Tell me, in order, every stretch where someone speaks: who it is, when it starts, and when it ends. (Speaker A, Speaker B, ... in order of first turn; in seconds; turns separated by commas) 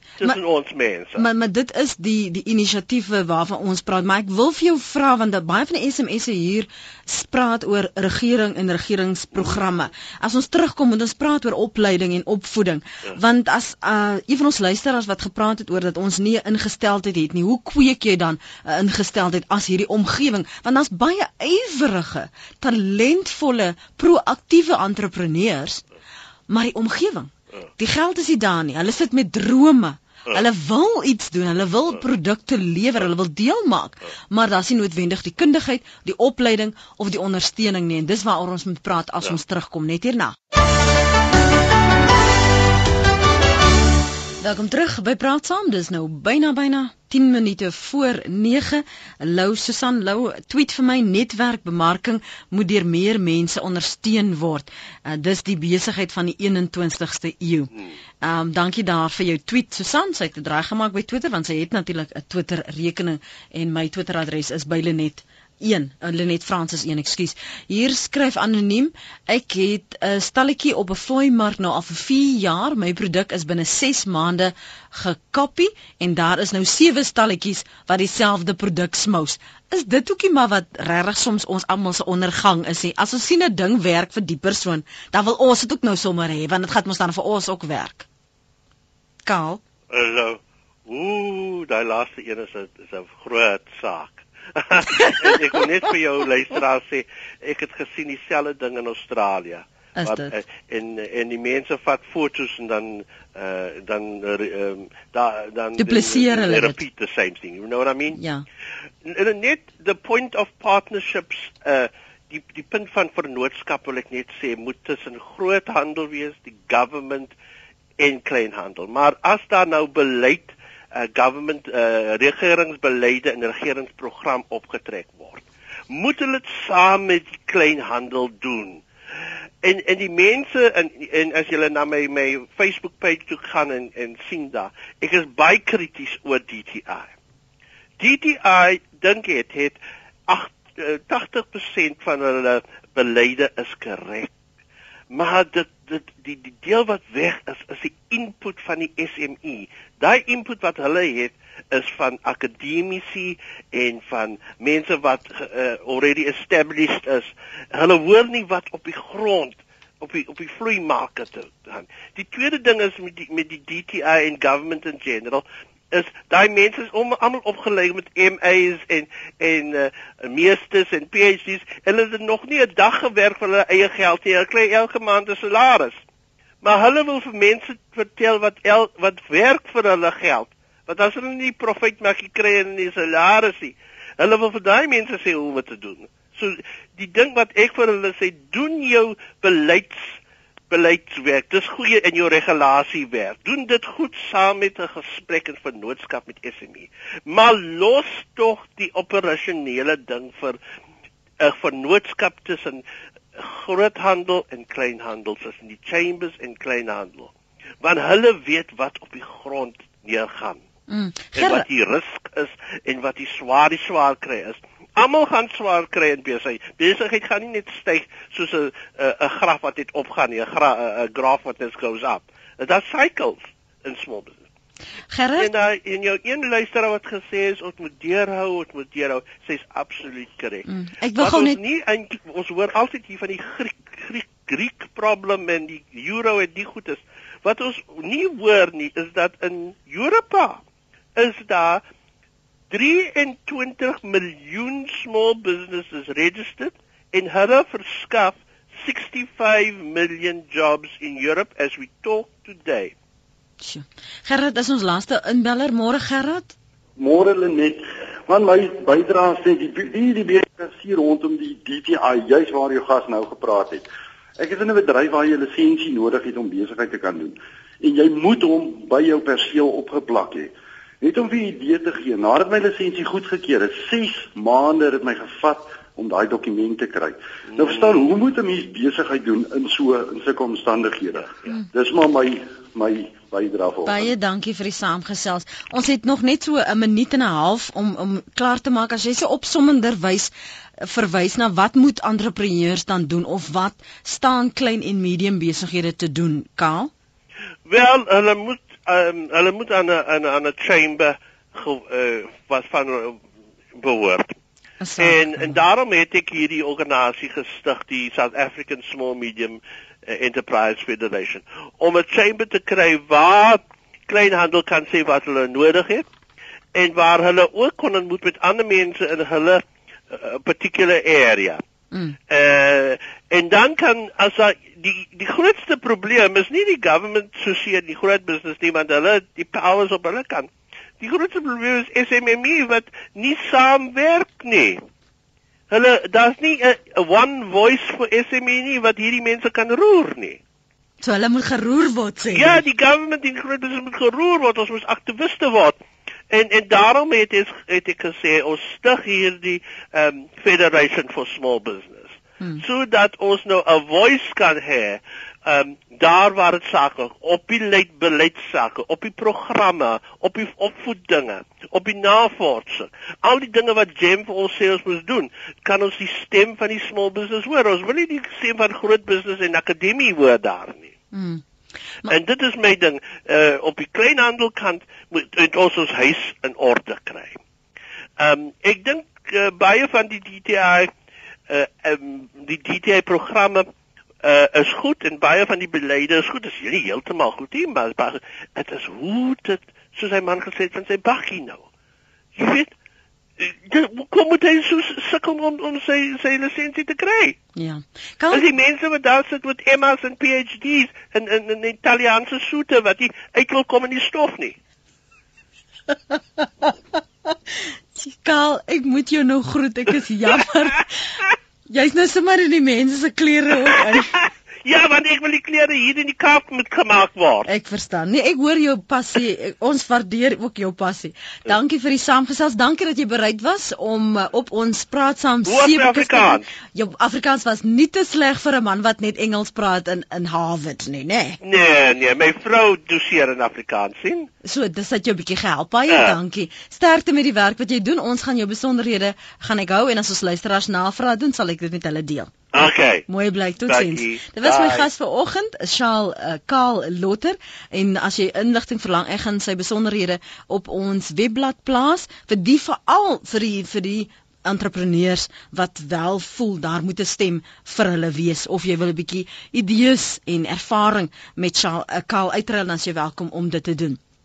Speaker A: 0.2-1.2, Speaker B: 1.2-25.8, Speaker B: 26.5-40.4, Speaker B: 44.4-88.0, Speaker B: 89.2-89.6, Speaker A: 89.9-108.2, Speaker B: 100.0-100.3, Speaker B: 105.8-106.8, Speaker B: 108.1-108.4, Speaker A: 109.0-117.3, Speaker A: 118.0-128.8, Speaker A: 129.6-137.1, Speaker A: 138.0-144.3, Speaker A: 145.1-176.0, Speaker A: 176.6-190.2, Speaker A: 190.7-200.6, Speaker A: 201.4-202.8, Speaker A: 203.3-210.6, Speaker B: 210.9-211.6, Speaker A: 211.3-224.4, Speaker B: 225.1-225.5, Speaker A: 225.4-240.6, Speaker B: 230.7-231.6, Speaker A: 241.2-241.8, Speaker A: 242.7-252.9, Speaker B: 253.6-256.5, Speaker C: 257.0-263.9, Speaker C: 264.4-284.1, Speaker B: 283.9-296.9, Speaker A: 297.7-303.2, Speaker A: 303.7-304.3, Speaker B: 304.8-305.6, Speaker A: 305.0-316.0, Speaker A: 316.7-321.6, Speaker A: 322.3-334.8, Speaker A: 335.7-340.4, Speaker B: 341.0-342.6, Speaker A: 342.3-345.8, Speaker A: 346.3-370.9, Speaker B: 371.1-371.4, Speaker A: 372.1-377.4, Speaker A: 378.2-380.9, Speaker A: 381.5-383.7, Speaker A: 384.2-391.6, Speaker A: 392.4-392.7, Speaker A: 393.4-397.4, Speaker B: 397.6-398.5, Speaker A: 398.3-404.6, Speaker B: 406.1-406.7, Speaker B: 407.9-411.1, Speaker B: 411.7-414.2, Speaker A: 413.7-417.5, Speaker B: 417.5-431.4, Speaker A: 425.4-426.5, Speaker A: 431.4-434.3, Speaker B: 434.4-442.3, Speaker A: 435.9-436.2, Speaker A: 442.5-443.1, Speaker B: 443.1-464.0, Speaker A: 443.6-444.9